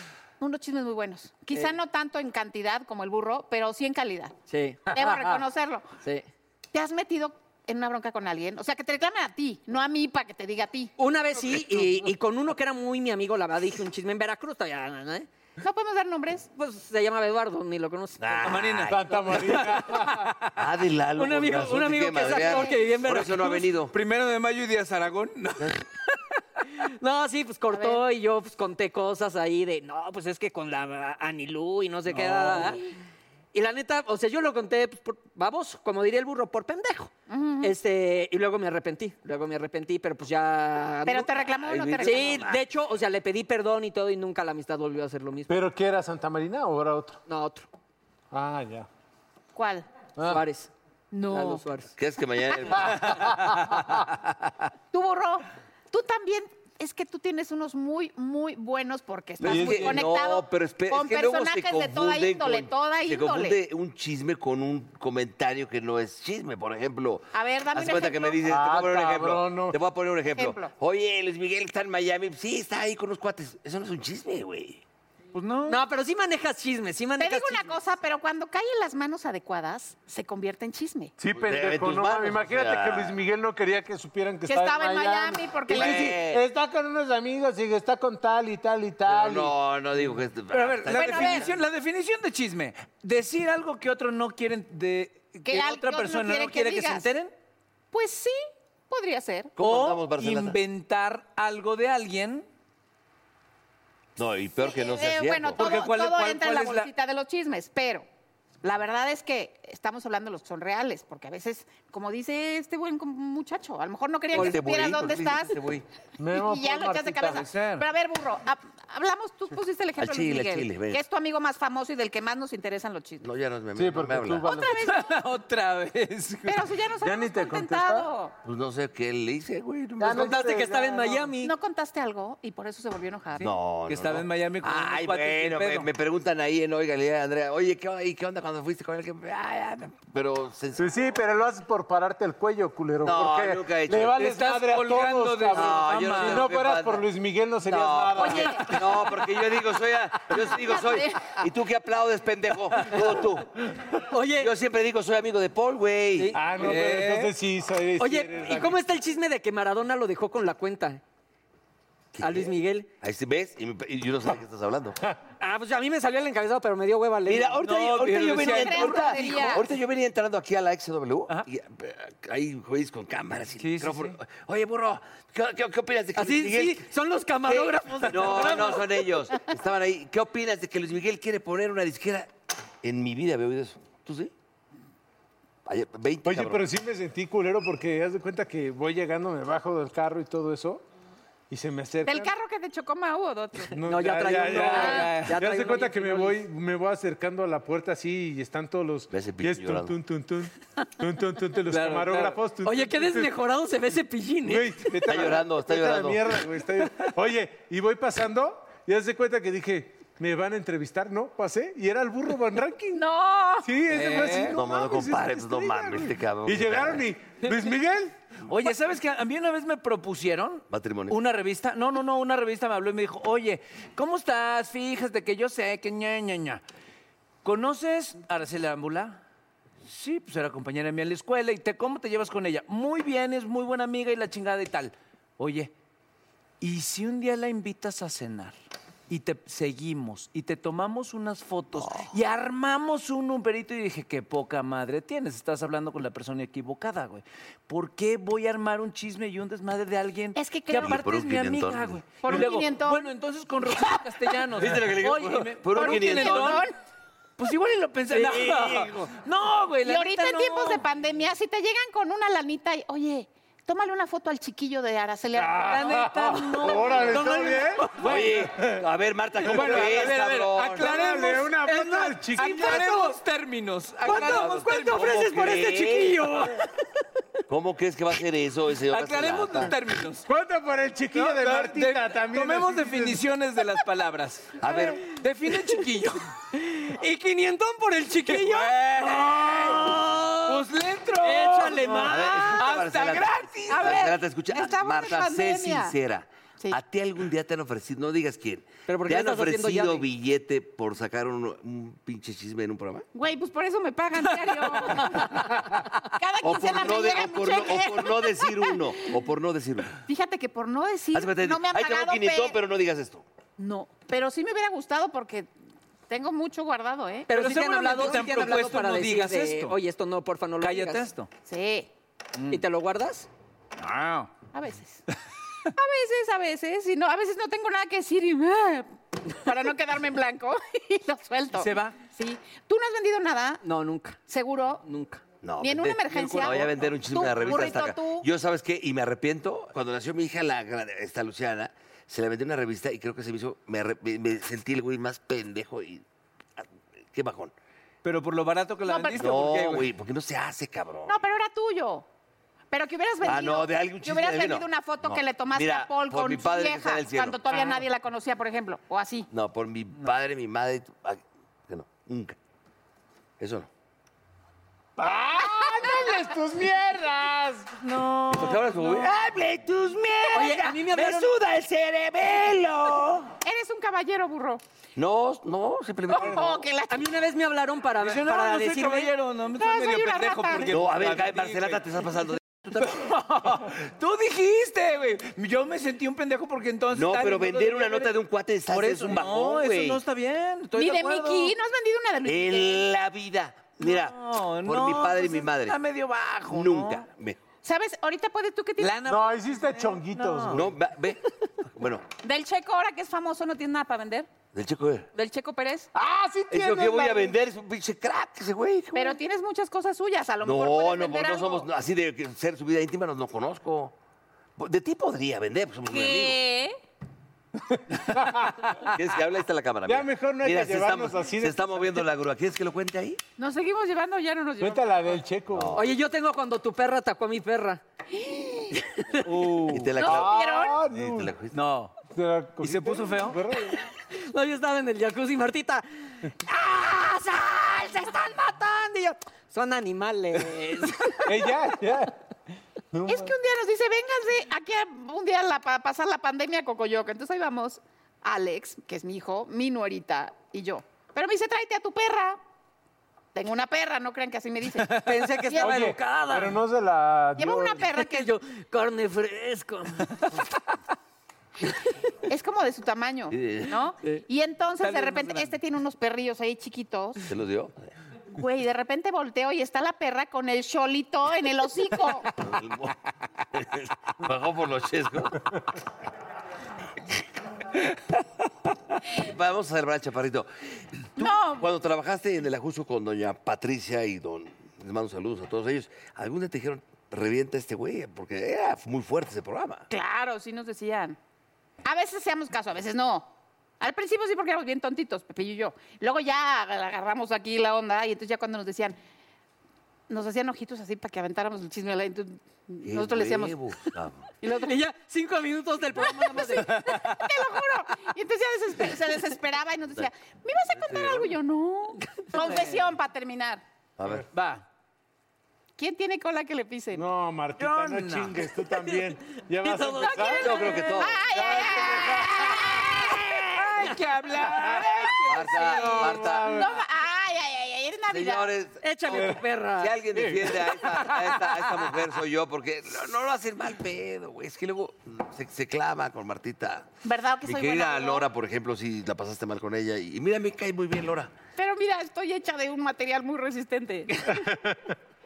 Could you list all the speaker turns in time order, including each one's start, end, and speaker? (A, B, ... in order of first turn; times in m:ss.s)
0:00.4-0:04.4 A
0:04.5-0:05.4 B
0:04.9-0:05.9 A
0:06.0-0:06.3 B
0:06.7-0:10.9 A
0:11.0-0:15.3 B
0:15.6-0:16.5 A
0:16.6-0:20.0 B
0:18.2-0:19.0 C
0:18.4-0:20.5 D
0:18.9-0:20.2 E
0:20.6-0:23.9 C
0:21.2-0:23.7 B
0:22.4-0:22.7 A
0:23.9-0:26.1 D
0:26.8-0:32.8 B
0:27.7-0:28.0 A
0:33.5-0:41.3 B
0:37.3-0:37.7 A
0:41.1-0:42.5 A
0:41.6-0:42.6 C
0:42.0-0:45.6 B
0:45.5-0:47.2 E
0:47.3-0:47.7 B
0:48.3-0:48.9 E
0:49.6-0:49.9 A
0:50.2-0:50.4 E
0:50.2-0:50.7 B
0:51.1-0:51.6 A
0:51.3-0:51.9 B
0:52.0-0:53.5 C
0:53.0-0:53.6 E
0:54.9-1:03.6 A
0:59.4-1:14.8 C
0:59.4-1:00.0 E
1:07.3-1:08.4 A
1:08.4-1:09.8 E
1:10.4-1:10.7 A
1:15.3-1:15.8 D
1:15.7-1:17.8 B
1:17.2-1:21.1 A
1:21.2-1:29.5 E
1:21.3-1:23.2 C
1:24.5-1:26.2 A
1:25.7-1:26.4 C
1:29.1-1:31.6 C
1:30.5-1:37.3 D
1:30.9-1:31.5 A
1:35.5-1:37.1 A
1:37.9-1:39.5 A
1:39.6-1:40.6 C
1:39.6-1:42.4 D
1:44.2-1:45.8 C
1:44.6-1:48.0 A
1:45.6-1:46.9 D
1:48.6-1:55.6 A
1:54.3-1:55.8 C
1:56.2-1:57.4 E
1:56.3-2:03.3 A
1:57.3-1:57.8 D
2:00.0-2:01.0 C
2:03.2-2:04.5 C
2:03.8-2:04.7 E
2:04.4-2:05.2 A
2:04.8-2:06.7 D
2:06.5-2:08.3 A
2:07.0-2:08.1 E
2:08.4-2:10.4 C
2:10.0-2:11.3 E
2:10.1-2:11.5 B
2:11.4-2:13.5 A
2:13.4-2:15.9 D
2:13.4-2:20.9 C
2:20.8-2:28.7 E
2:23.0-2:24.2 C
2:24.2-2:26.5 D
2:25.5-2:27.1 C
2:27.6-2:33.6 C
2:28.2-2:29.0 A
2:30.3-2:31.4 A
2:34.1-2:34.5 B
2:34.3-2:36.4 C
2:36.2-2:36.4 B
2:36.3-2:38.8 E
2:36.6-2:37.3 D
2:38.0-2:41.0 B
2:42.1-2:45.0 C
2:42.2-2:42.9 B
2:45.4-2:47.6 B
2:47.3-2:56.9 C
2:47.6-2:49.6 D
2:48.4-2:49.6 A
2:53.6-2:54.2 D
2:56.2-2:59.1 B
2:57.5-3:02.3 C
3:02.8-3:04.3 C
3:05.7-3:06.6 C
3:06.2-3:10.8 E
3:11.5-3:12.3 E
3:12.0-3:13.8 A
3:13.7-3:23.3 E
3:13.8-3:16.4 B
3:14.5-3:15.4 D
3:14.7-3:15.1 A
3:19.1-3:20.0 C
3:21.7-3:22.4 D
3:22.6-3:25.0 B
3:24.4-3:33.0 E
3:25.0-3:26.5 C
3:32.9-3:34.4 A
3:33.6-3:38.2 E
3:33.9-3:34.6 D
3:34.5-3:37.0 C
3:38.5-3:46.6 D
3:40.7-3:41.2 C
3:47.4-3:49.2 D
3:49.9-3:55.7 D
3:56.6-3:58.5 D
3:59.1-4:16.7 D
4:01.8-4:02.1 C
4:10.4-4:11.0 A
4:10.7-4:12.5 C
4:12.2-4:13.1 A
4:14.5-4:16.6 C
4:15.8-4:16.7 A
4:17.4-4:20.8 D
4:18.1-4:19.1 B
4:19.8-4:25.9 A
4:25.4-4:28.0 E
4:25.7-4:28.5 D
4:26.8-4:28.0 B
4:28.0-4:30.9 C
4:28.6-4:28.8 E
4:29.4-4:31.7 D
4:29.4-4:30.2 E
4:30.8-4:33.0 E
4:31.7-4:33.2 B
4:32.3-4:35.3 D
4:34.0-4:36.8 B
4:34.0-4:36.3 C
4:37.5-4:39.7 C
4:38.9-4:40.3 D
4:40.3-4:43.2 E
4:41.1-4:46.2 D
4:44.6-4:45.1 C
4:46.6-4:50.6 B
4:48.3-4:54.0 D
4:51.2-4:52.6 B
4:52.0-5:03.1 C
4:53.7-4:56.0 A
4:58.9-5:00.1 B
5:03.1-5:09.1 A
5:06.4-5:10.0 C
5:10.1-5:12.6 A
5:11.1-5:13.2 C
5:13.6-5:15.5 A
5:16.1-5:17.3 A
5:17.3-5:21.1 B
5:17.3-5:19.8 D
5:20.6-5:21.3 D
5:21.5-5:21.9 A
5:22.4-5:22.6 D
5:22.5-5:23.3 B
5:23.8-5:24.3 D
5:24.5-5:25.0 A
5:25.7-5:33.6 A
5:31.6-5:32.0 D
5:33.6-5:34.2 B
5:34.3-5:34.8 A
5:34.8-5:35.2 B
5:35.4-5:46.0 C
5:35.6-5:38.3 A
5:36.2-5:36.7 B
5:46.6-5:47.5 C
5:48.0-5:49.9 D
5:48.9-5:49.2 A
5:49.2-5:51.2 C
5:51.1-5:52.0 A
5:52.7-5:59.3 A
5:53.2-5:57.4 C
5:59.3-6:02.4 C
6:03.4-6:03.7 C
6:05.0-6:07.8 E
6:05.4-6:06.3 A
6:07.8-6:09.1 D
6:08.3-6:13.3 C
6:10.3-6:11.3 B
6:13.4-6:14.6 A
6:15.0-6:16.7 C
6:16.1-6:17.1 A
6:16.9-6:19.1 B
6:18.0-6:21.8 D
6:19.6-6:20.7 A
6:20.7-6:23.0 C
6:22.7-6:28.1 D
6:26.9-6:30.0 C
6:28.7-6:31.6 D
6:30.8-6:32.9 A
6:32.2-6:35.8 C
6:33.8-6:37.1 D
6:36.5-6:37.4 C
6:37.6-6:39.1 A
6:38.8-6:40.6 D
6:39.0-6:40.7 E
6:40.5-6:42.0 C
6:42.2-6:44.3 A
6:44.5-6:45.1 C
6:45.1-6:45.9 A
6:46.0-6:47.4 E
6:46.5-6:49.2 C
6:48.9-6:51.7 A
6:50.4-6:53.9 C
6:54.6-6:56.4 C
6:55.8-6:56.8 A
6:58.1-6:58.7 E
6:58.8-7:03.2 C
6:59.9-7:01.7 E
7:03.4-7:05.2 A
7:04.6-7:05.8 E
7:05.5-7:05.9 C
7:05.7-7:07.8 B
7:08.2-7:08.8 A
7:09.3-7:11.4 E
7:09.7-7:11.6 C
7:10.0-7:10.8 A
7:11.5-7:12.0 D
7:12.2-7:13.8 E
7:12.6-7:13.4 D
7:14.1-7:21.7 B
7:21.2-7:22.2 E
7:22.9-7:23.3 E
7:23.1-7:32.4 A
7:33.4-7:35.8 A
7:34.9-7:35.1 D
7:35.0-7:36.6 B
7:35.6-7:37.9 E
7:37.4-7:38.3 A
7:37.9-7:40.2 B
7:42.3-7:47.2 A
7:43.3-7:43.7 C
7:44.8-7:45.5 D
7:47.3-7:47.9 C
7:48.3-7:52.3 A
7:52.3-7:53.0 C
7:53.5-7:55.5 C
7:59.1-8:00.5 C
8:01.2-8:09.9 C
8:01.2-8:01.7 A
8:09.9-8:11.2 A
8:11.8-8:13.3 A
8:13.8-8:19.0 A
8:20.1-8:23.6 A
8:22.8-8:24.3 C
8:24.4-8:24.8 A
8:24.5-8:26.8 B
8:26.0-8:33.6 A
8:26.7-8:27.1 D
8:30.7-8:31.3 C
8:34.0-8:34.2 C
8:34.3-8:34.6 D
8:35.8-8:37.0 A
8:36.9-8:40.8 E
8:37.6-8:38.4 D
8:39.6-8:40.6 B
8:40.0-8:43.6 A
8:40.4-8:41.2 C
8:41.3-8:42.6 E
8:43.6-8:46.1 D
8:44.5-8:45.1 E
8:45.3-8:46.6 C
8:45.6-8:46.8 E
8:46.4-8:48.5 A
8:48.1-8:48.8 C
8:48.8-8:50.0 B
8:49.1-8:49.4 E
8:49.8-8:56.9 C
8:50.2-8:50.5 E
8:57.0-8:58.3 A
8:57.4-9:01.3 C
9:01.6-9:04.5 A
9:04.4-9:04.7 E